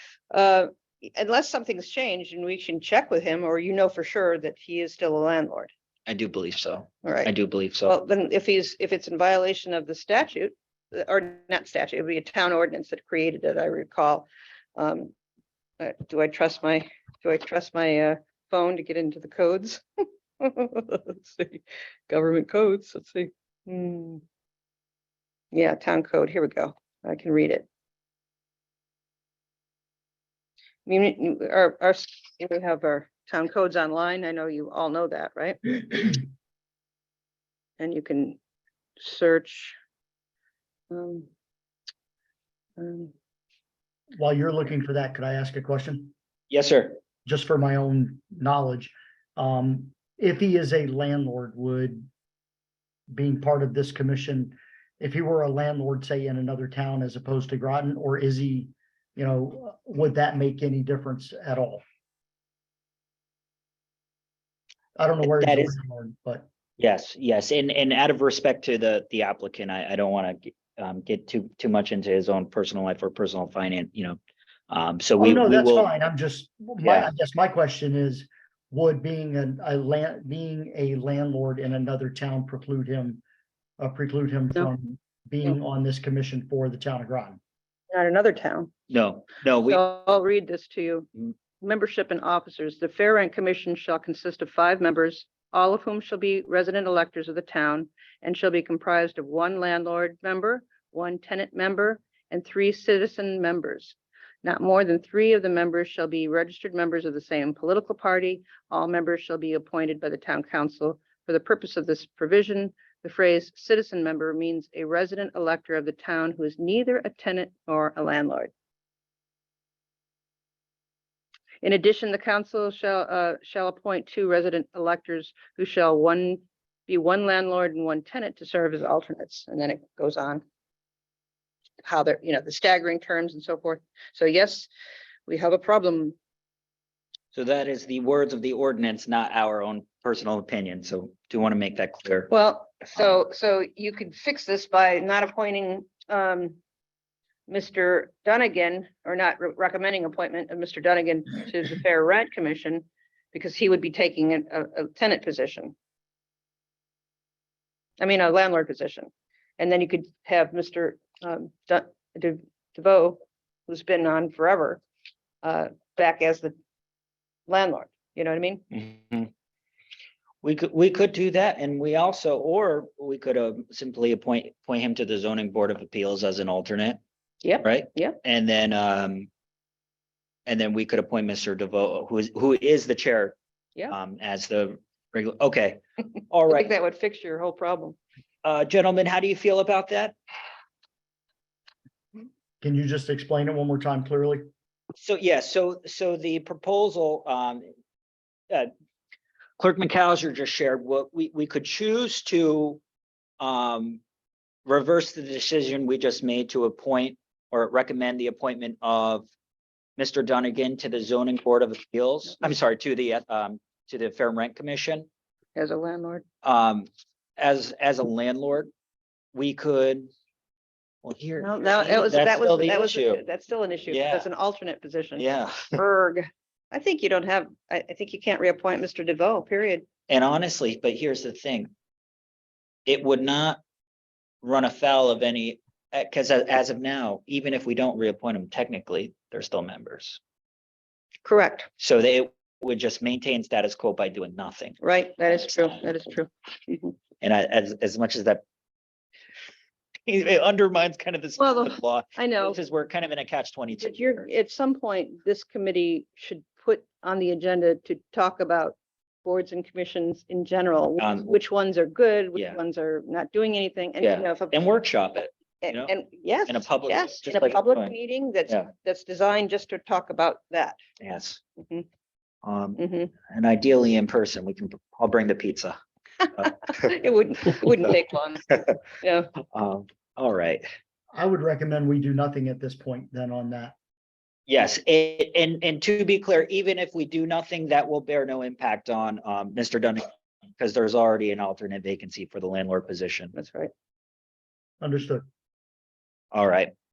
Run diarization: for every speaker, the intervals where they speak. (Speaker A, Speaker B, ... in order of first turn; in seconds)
Speaker A: 0.3-5.7, 7.0-7.3, 7.8-15.1, 15.8-19.8, 20.4-24.2, 25.5-27.7, 30.8-36.2, 37.8-38.4, 39.0-39.8, 40.9-41.3, 42.8-43.1, 87.9-88.7, 89.7-118.5, 121.6-130.4, 131.8-134.7, 135.3-136.2, 142.3-146.6, 147.5-155.7, 158.0-164.8, 165.4-166.5, 167.5-168.6, 177.4-178.2, 186.5-188.0, 215.6-216.2, 221.4-229.8, 241.2-241.7, 244.8-246.9, 251.4-252.6, 253.8-264.6, 265.6-270.8, 271.6-271.8, 272.8-273.1, 276.4-278.5, 279.0-279.3, 293.3-293.7
Speaker B: 6.1-7.9, 46.5-47.0, 65.2-65.7, 66.8-74.2, 74.7-76.0, 76.8-77.1, 88.9-89.8, 137.3-142.3, 168.7-169.3, 170.4-177.0, 177.6-179.3, 180.5-183.3, 183.9-186.7, 188.4-190.1, 195.0-197.7, 199.6-202.8, 203.4-204.0, 204.7-209.3, 210.0-215.1, 216.4-218.7, 219.3-220.1, 221.0-223.2, 223.9-224.3, 225.2-225.8, 230.1-231.7, 232.8-233.6, 234.4-240.2, 241.8-244.8, 247.2-248.4, 250.1-254.2, 261.0-261.3, 264.0-265.9, 266.5-267.9, 271.0-271.4, 272.4-275.8, 279.5-280.6, 284.5-290.0, 290.6-293.3, 296.3-296.7
Speaker C: 44.1-46.1, 47.2-52.1, 53.1-61.8, 65.0-66.5, 75.2-83.2, 83.8-87.4, 192.6-194.4, 281.1-283.8, 294.8-295.2